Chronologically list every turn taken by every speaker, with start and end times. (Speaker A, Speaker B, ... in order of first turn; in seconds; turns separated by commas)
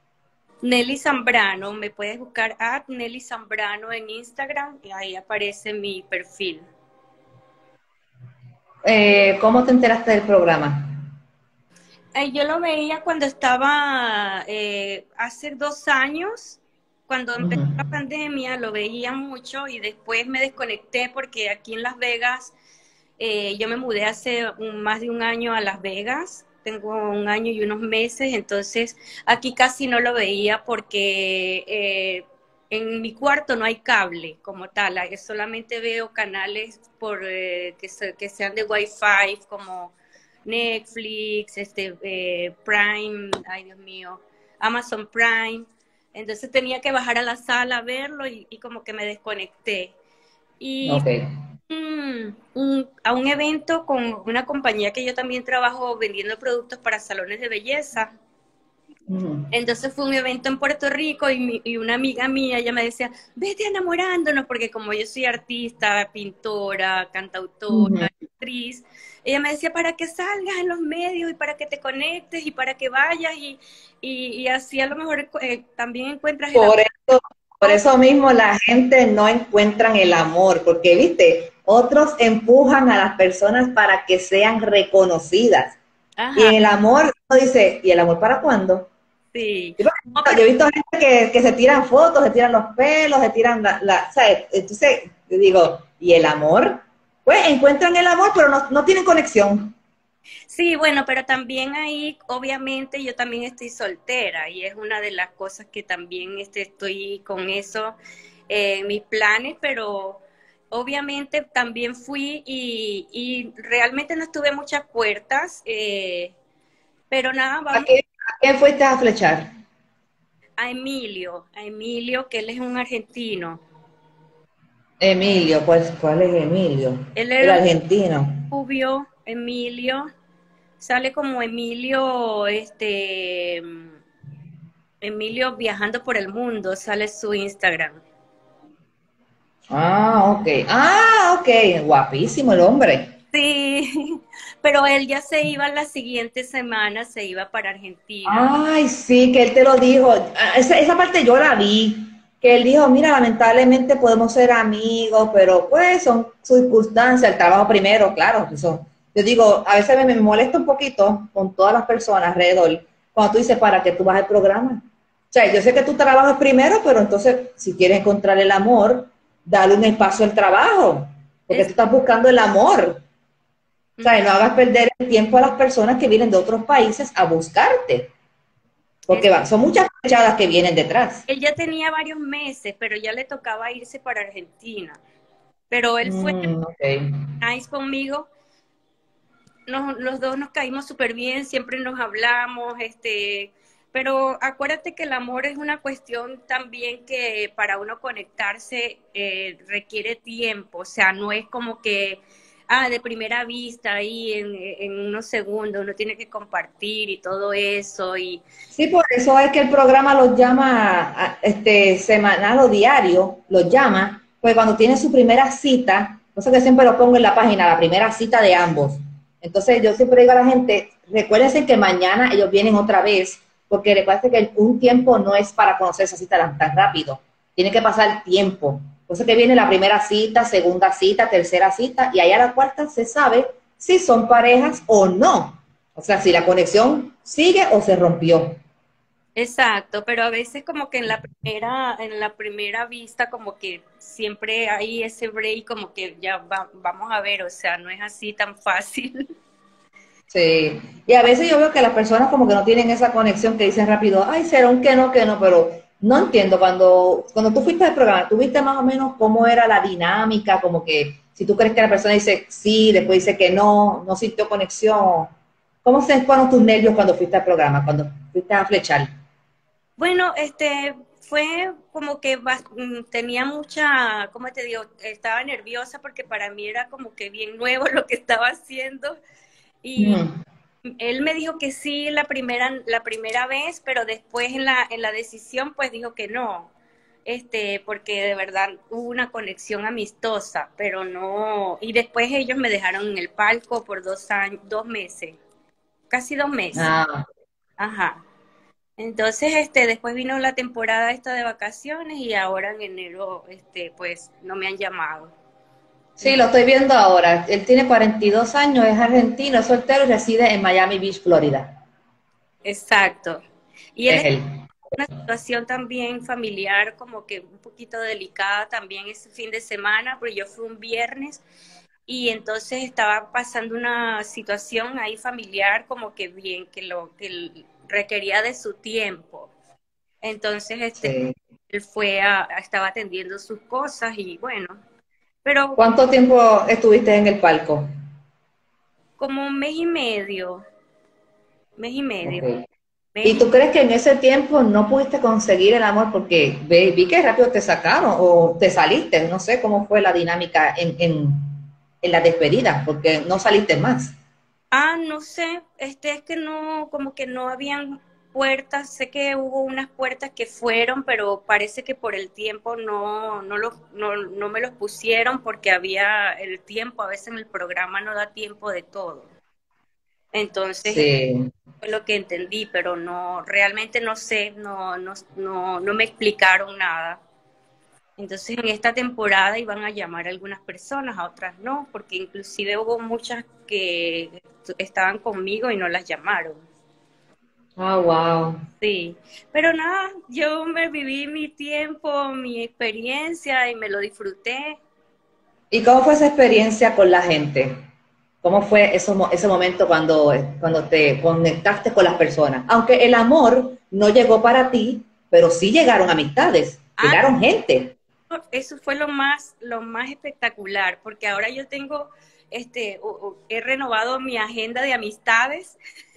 Speaker A: 0.6-6.7, Speaker B: 8.8-11.0, Speaker A: 12.2-22.5, Speaker B: 17.4-17.8, Speaker A: 23.2-39.9, Speaker A: 40.5-49.9, Speaker A: 50.6-51.0, Speaker B: 50.8-51.2, Speaker A: 51.7-58.1, Speaker B: 59.1-59.5, Speaker A: 59.5-76.8, Speaker B: 67.7-68.1, Speaker B: 76.5-85.8, Speaker A: 86.2-86.6, Speaker B: 86.3-88.9, Speaker A: 89.3-90.4, Speaker B: 89.8-99.8, Speaker A: 100.5-108.0, Speaker A: 108.5-116.3, Speaker A: 117.1-117.9, Speaker B: 117.7-119.5, Speaker A: 120.6-123.6, Speaker B: 125.0-128.4, Speaker A: 127.2-127.7, Speaker A: 128.5-130.1, Speaker A: 130.8-133.9, Speaker A: 135.0-138.0, Speaker B: 139.7-143.1, Speaker A: 143.3-148.5, Speaker B: 148.3-173.0, Speaker A: 174.0-174.2, Speaker B: 174.0-178.1, Speaker B: 179.1-181.2, Speaker A: 179.1-179.4, Speaker A: 181.3-185.0, Speaker A: 185.7-186.5, Speaker B: 186.0-187.1, Speaker A: 187.4-188.3, Speaker A: 189.7-208.4, Speaker B: 208.7-238.6, Speaker A: 239.4-249.3, Speaker B: 250.3-265.3, Speaker B: 265.9-269.1, Speaker A: 270.0-279.2, Speaker A: 279.8-280.2, Speaker B: 280.0-280.3, Speaker A: 281.0-286.7, Speaker A: 287.2-295.4, Speaker A: 296.1-296.9, Speaker B: 296.8-297.3, Speaker A: 297.8-298.2, Speaker A: 299.0-305.3, Speaker B: 306.2-311.8, Speaker A: 312.6-313.4, Speaker A: 314.0-314.3, Speaker B: 314.1-314.4, Speaker A: 314.9-321.4, Speaker A: 322.1-329.5, Speaker A: 330.2-331.2, Speaker B: 331.0-331.4, Speaker A: 331.7-334.8, Speaker A: 335.4-335.8, Speaker B: 335.8-337.9, Speaker A: 339.2-340.6, Speaker A: 341.8-342.5, Speaker B: 342.2-342.6, Speaker A: 343.1-343.5, Speaker B: 343.2-354.1, Speaker A: 354.7-369.3, Speaker A: 370.3-371.1, Speaker B: 370.8-371.5, Speaker A: 371.8-377.2, Speaker A: 378.2-386.6, Speaker B: 387.8-388.6, Speaker A: 388.8-394.8, Speaker B: 395.7-397.8, Speaker B: 398.4-408.0, Speaker A: 407.0-407.3, Speaker A: 408.3-415.8